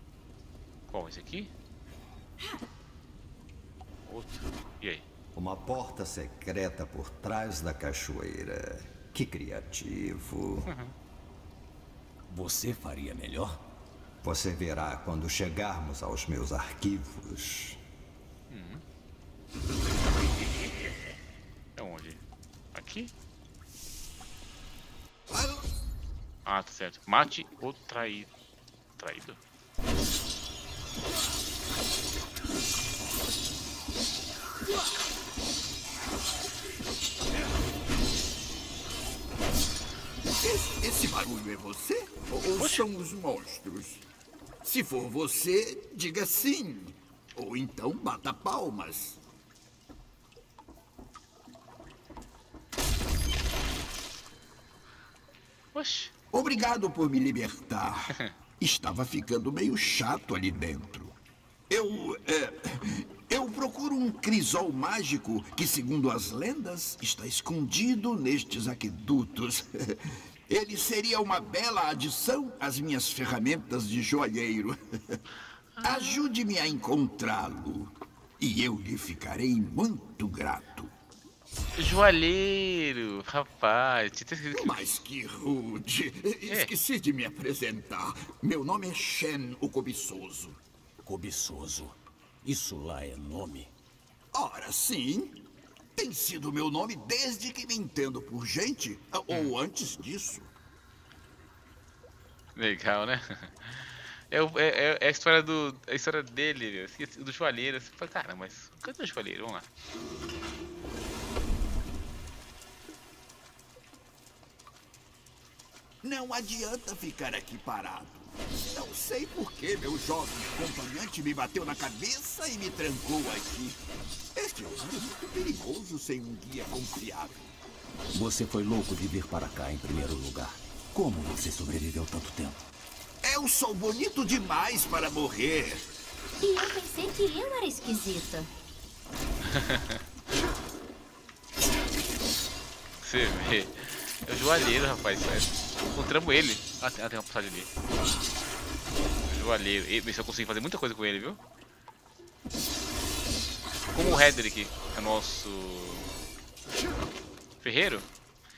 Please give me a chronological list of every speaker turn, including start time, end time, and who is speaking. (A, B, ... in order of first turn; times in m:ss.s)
0:00.9-0:01.5 A
0:04.1-0:05.0 A
0:05.4-0:10.7 B
0:10.7-0:11.0 A
0:12.3-0:13.6 C
0:14.2-0:17.8 B
0:18.5-0:18.8 A
0:21.8-0:22.2 A
0:22.7-0:23.1 A
0:25.3-0:25.6 D
0:26.5-0:28.3 A
0:29.0-0:29.4 A
0:40.4-0:44.0 D
0:42.6-0:42.8 A
0:44.6-0:49.2 D
0:55.7-0:56.1 A
0:56.3-1:01.2 D
1:01.7-1:09.7 D
1:10.5-1:15.2 D
1:15.8-1:16.2 A
1:15.8-1:20.9 D
1:21.8-1:24.9 A
1:24.5-1:30.6 D
1:26.5-1:26.7 A
1:31.0-1:33.7 C
1:34.3-1:35.4 D
1:36.0-1:40.5 D
1:39.3-1:39.5 A
1:42.6-1:49.7 A
1:56.0-2:03.8 D
2:04.4-2:07.5 D
2:08.1-2:12.6 C
2:13.2-2:15.9 D
2:16.4-2:18.5 E
2:19.4-2:20.0 A
2:23.0-2:27.7 A
2:29.3-2:31.4 A
2:33.9-2:36.1 A
2:37.6-2:38.1 A